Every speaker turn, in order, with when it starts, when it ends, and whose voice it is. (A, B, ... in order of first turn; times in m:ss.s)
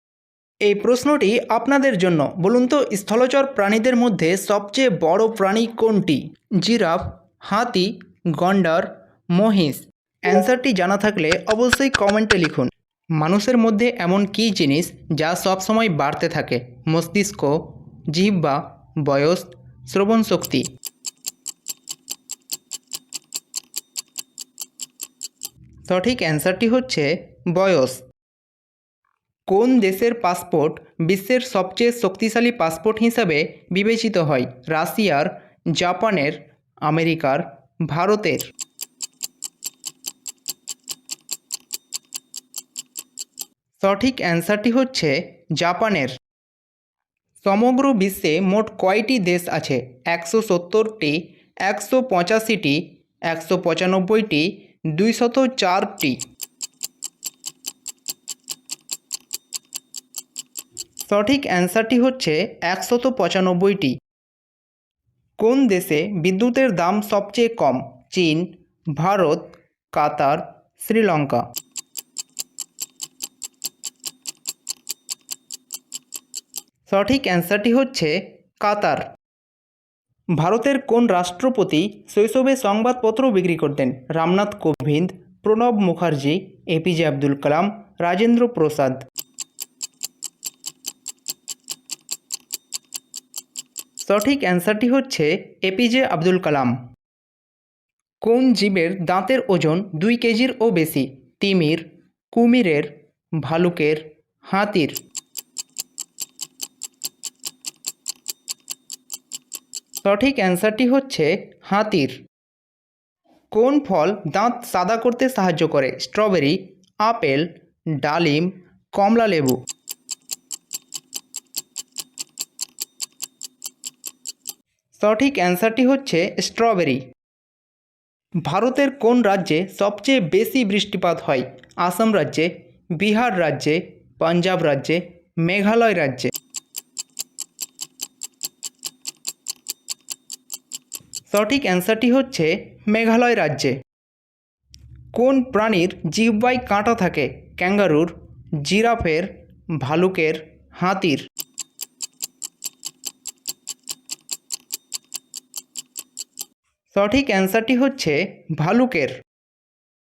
0:00.6-0:20.7 A
0:25.9-0:28.0 A
0:29.5-0:38.5 A
0:43.8-0:46.2 A
0:47.4-0:56.2 A
1:01.0-1:04.0 A
1:05.4-1:11.4 A
1:16.9-1:19.1 A
1:20.4-1:29.0 A
1:34.0-1:36.8 A
1:38.2-1:45.0 A
1:50.0-1:52.2 A
1:53.5-1:59.6 A
2:05.0-2:07.0 A
2:08.4-2:16.3 A
2:21.3-2:23.8 A
2:25.1-2:31.3 A
2:36.9-2:39.2 A